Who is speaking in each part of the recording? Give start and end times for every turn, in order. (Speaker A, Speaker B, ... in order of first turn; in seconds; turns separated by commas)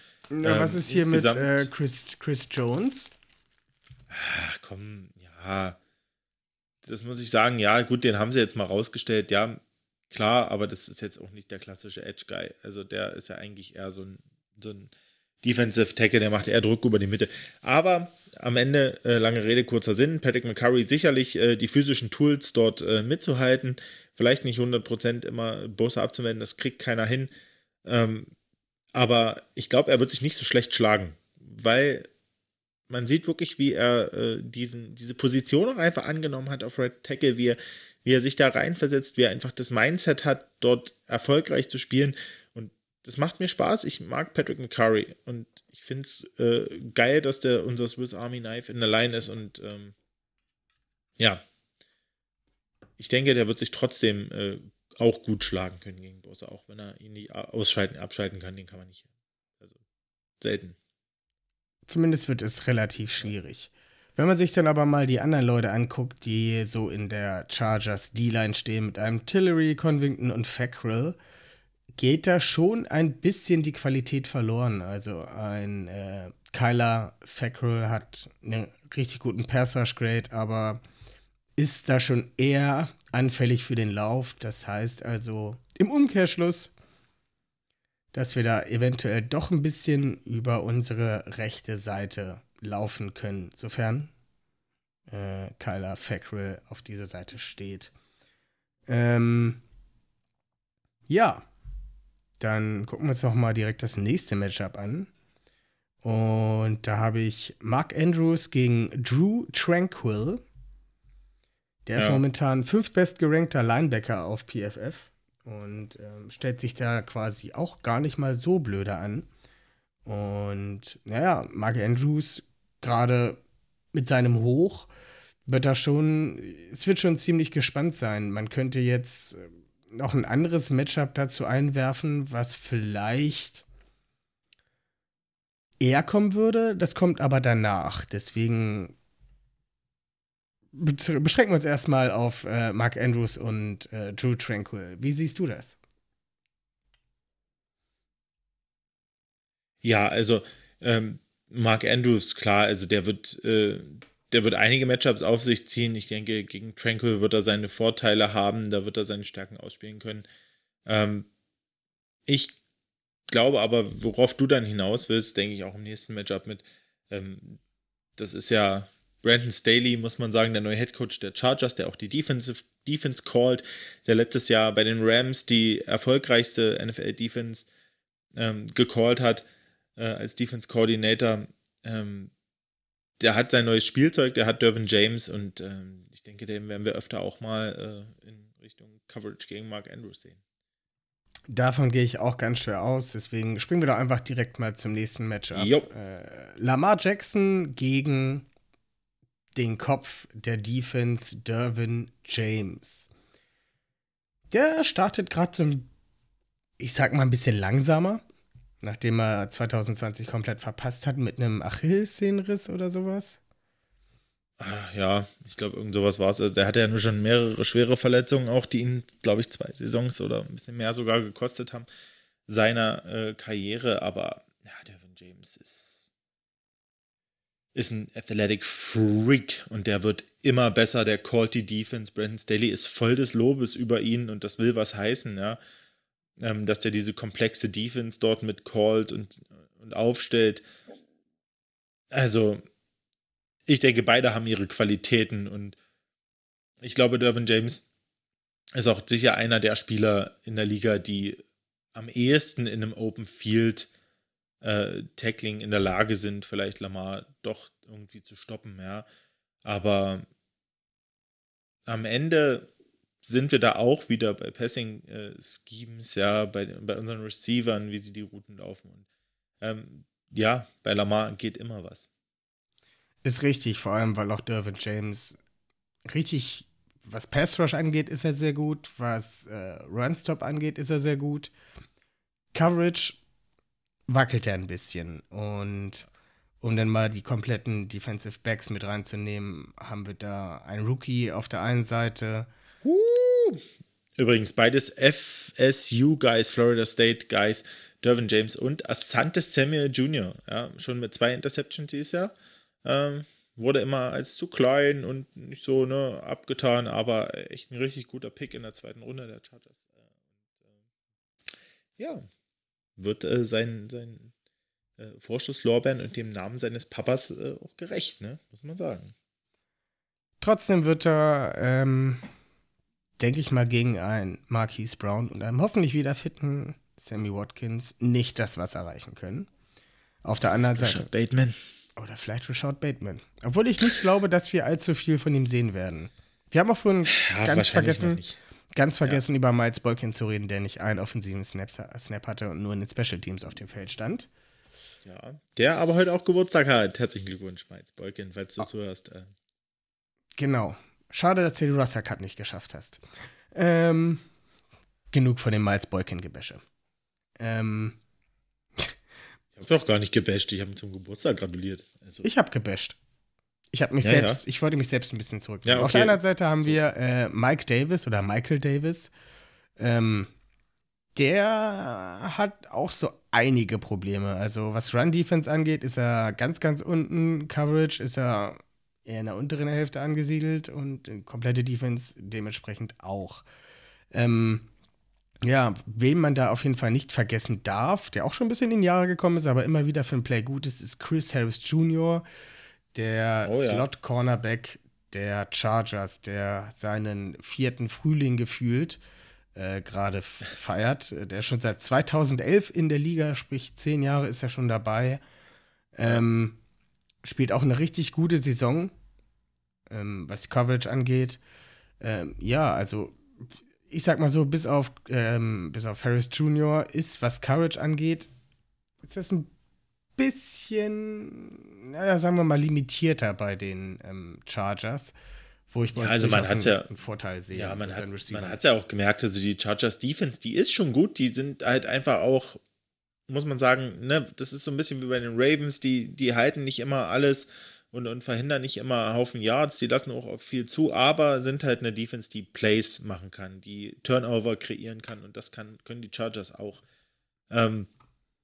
Speaker A: 0.3-3.1, Speaker B: 0.4-1.7, Speaker B: 4.1-5.8, Speaker B: 6.8-14.9, Speaker B: 15.4-27.3, Speaker B: 27.8-28.3, Speaker B: 28.9-32.1, Speaker B: 32.9-49.9, Speaker B: 53.0-59.1, Speaker B: 60.4-60.8, Speaker A: 61.9-71.2, Speaker A: 71.9-80.8, Speaker A: 81.6-86.7, Speaker A: 88.1-94.1, Speaker A: 95.1-97.9, Speaker A: 98.9-99.6, Speaker A: 101.1-101.5, Speaker A: 102.4-105.1, Speaker A: 106.0-110.4, Speaker A: 111.9-119.3, Speaker B: 112.0-112.2, Speaker A: 120.0-123.4, Speaker A: 123.9-124.9, Speaker A: 125.5-133.6, Speaker A: 135.8-138.9, Speaker A: 140.7-145.8, Speaker B: 149.8-160.2, Speaker B: 160.8-161.3, Speaker B: 162.3-162.5, Speaker B: 163.3-167.6, Speaker B: 168.2-177.7, Speaker B: 178.3-179.4, Speaker B: 180.0-182.3, Speaker B: 183.2-190.4, Speaker A: 191.5-198.5, Speaker B: 195.5-195.9, Speaker A: 199.5-203.1, Speaker A: 204.5-205.9, Speaker A: 206.8-208.2, Speaker A: 208.8-213.4, Speaker B: 214.6-221.9, Speaker B: 222.5-226.1, Speaker B: 227.7-235.6, Speaker B: 236.4-240.6, Speaker B: 242.1-242.6, Speaker B: 243.7-245.8, Speaker B: 246.8-247.9, Speaker B: 248.7-251.4, Speaker B: 251.9-253.9, Speaker B: 254.6-259.1, Speaker B: 259.6-260.2, Speaker B: 261.9-262.7, Speaker B: 263.2-269.1, Speaker B: 269.6-272.1, Speaker A: 273.2-275.4, Speaker A: 276.1-281.5, Speaker A: 282.5-283.2, Speaker A: 284.1-286.1, Speaker A: 286.6-292.5, Speaker B: 292.8-293.6, Speaker B: 294.2-302.3, Speaker B: 302.8-310.8, Speaker B: 312.0-312.3, Speaker B: 313.0-314.3, Speaker B: 315.0-319.1, Speaker A: 320.4-322.2, Speaker A: 323.2-329.5, Speaker A: 330.2-331.1, Speaker B: 330.7-331.6, Speaker A: 332.0-338.2, Speaker B: 337.1-338.4, Speaker A: 338.7-344.3, Speaker B: 345.0-349.3, Speaker A: 350.4-353.0, Speaker A: 353.5-354.2, Speaker A: 355.1-356.6, Speaker A: 357.4-358.0, Speaker B: 359.5-362.3, Speaker A: 362.2-363.0, Speaker A: 363.7-369.1, Speaker B: 364.0-364.4, Speaker B: 365.6-366.7, Speaker A: 369.8-370.3, Speaker A: 371.1-383.4, Speaker A: 384.1-384.6, Speaker A: 385.4-392.2, Speaker A: 392.9-399.0, Speaker B: 393.4-393.9, Speaker A: 399.5-405.2, Speaker A: 405.9-406.6, Speaker A: 407.2-408.9, Speaker A: 409.9-411.4, Speaker A: 412.0-413.2, Speaker A: 413.9-418.3, Speaker A: 419.0-419.5, Speaker A: 420.2-425.1, Speaker A: 425.7-428.6, Speaker B: 425.9-426.9, Speaker B: 427.5-432.6, Speaker B: 433.3-446.8, Speaker B: 447.5-447.9